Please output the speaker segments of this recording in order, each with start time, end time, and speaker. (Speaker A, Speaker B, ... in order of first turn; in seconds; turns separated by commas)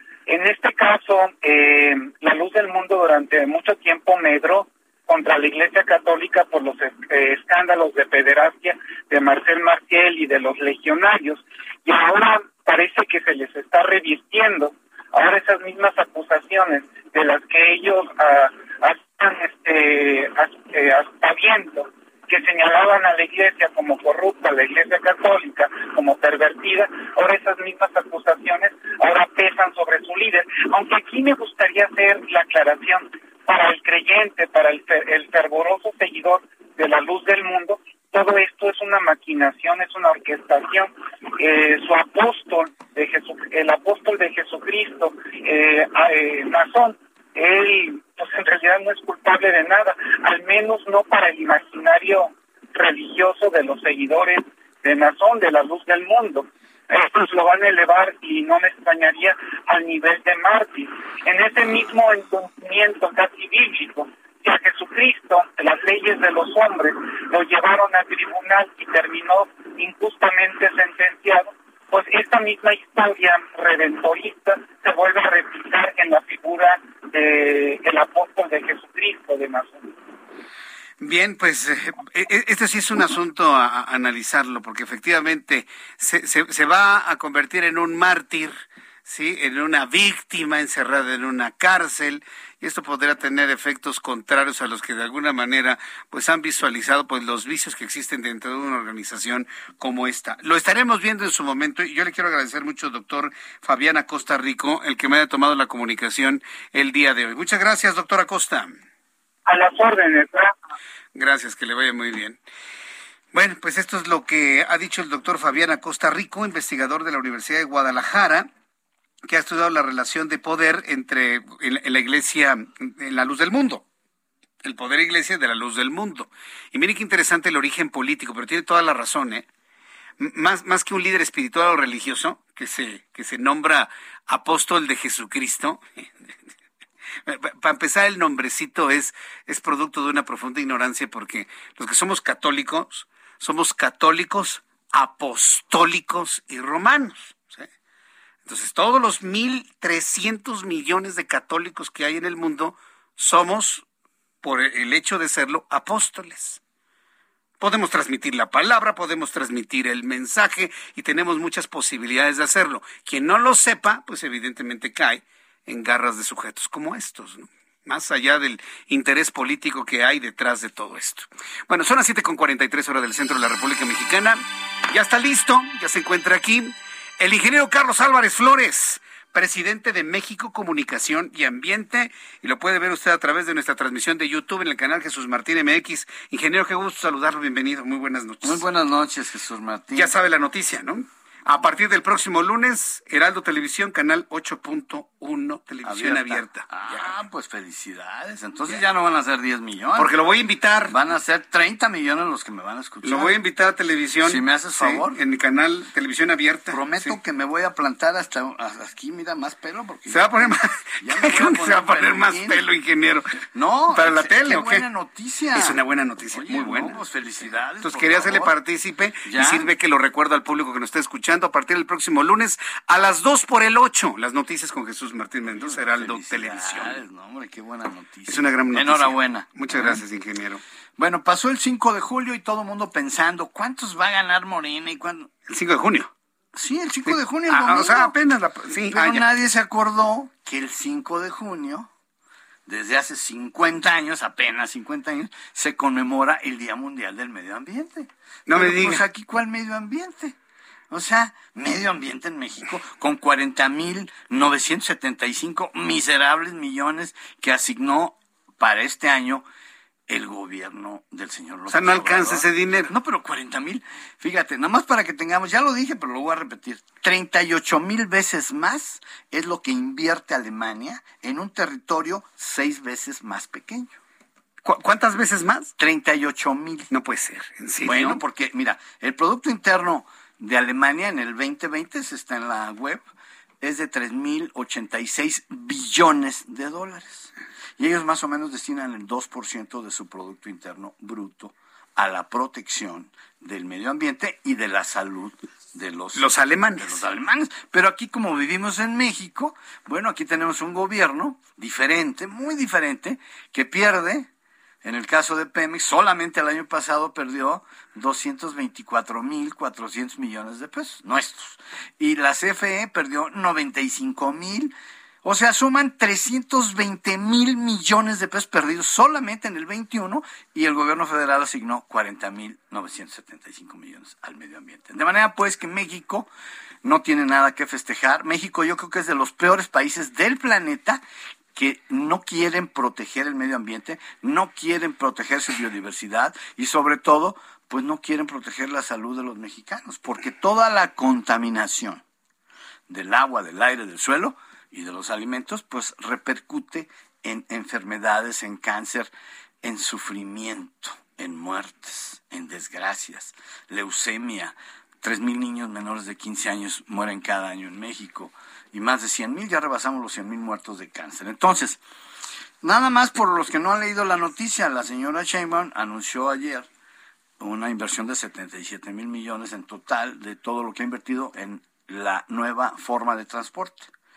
Speaker A: 0.3-79.9, Speaker B: 81.0-108.8, Speaker A: 109.5-110.5, Speaker B: 111.2-112.4, Speaker B: 113.3-118.5, Speaker B: 119.2-123.8, Speaker B: 124.6-129.5, Speaker B: 130.2-136.3, Speaker B: 137.3-147.7, Speaker B: 148.4-153.8, Speaker B: 154.4-156.6, Speaker B: 157.6-188.6, Speaker C: 188.4-190.2, Speaker B: 189.9-197.1, Speaker C: 195.8-200.1, Speaker B: 200.0-200.9, Speaker C: 200.9-203.4, Speaker B: 203.0-207.2, Speaker C: 204.2-205.2, Speaker C: 206.7-212.7, Speaker B: 210.1-213.3, Speaker C: 213.5-215.8, Speaker B: 213.9-214.9, Speaker B: 215.6-217.0, Speaker C: 216.3-218.5, Speaker B: 217.5-227.0, Speaker C: 219.3-219.7, Speaker C: 225.5-230.0, Speaker B: 228.3-230.6, Speaker C: 231.0-235.3, Speaker B: 235.5-236.1, Speaker C: 236.6-238.2, Speaker B: 237.1-239.3, Speaker C: 238.8-241.9, Speaker C: 242.7-250.3, Speaker B: 248.5-249.0, Speaker C: 250.9-259.4, Speaker C: 260.1-274.0, Speaker B: 261.7-262.9, Speaker B: 274.6-275.7, Speaker C: 275.8-276.9, Speaker B: 276.9-278.2, Speaker C: 277.8-283.0, Speaker C: 283.6-304.3, Speaker B: 296.1-297.0, Speaker C: 304.8-326.3, Speaker C: 326.8-331.0, Speaker C: 331.6-342.0, Speaker C: 342.9-361.8, Speaker C: 362.6-366.7, Speaker C: 367.4-373.9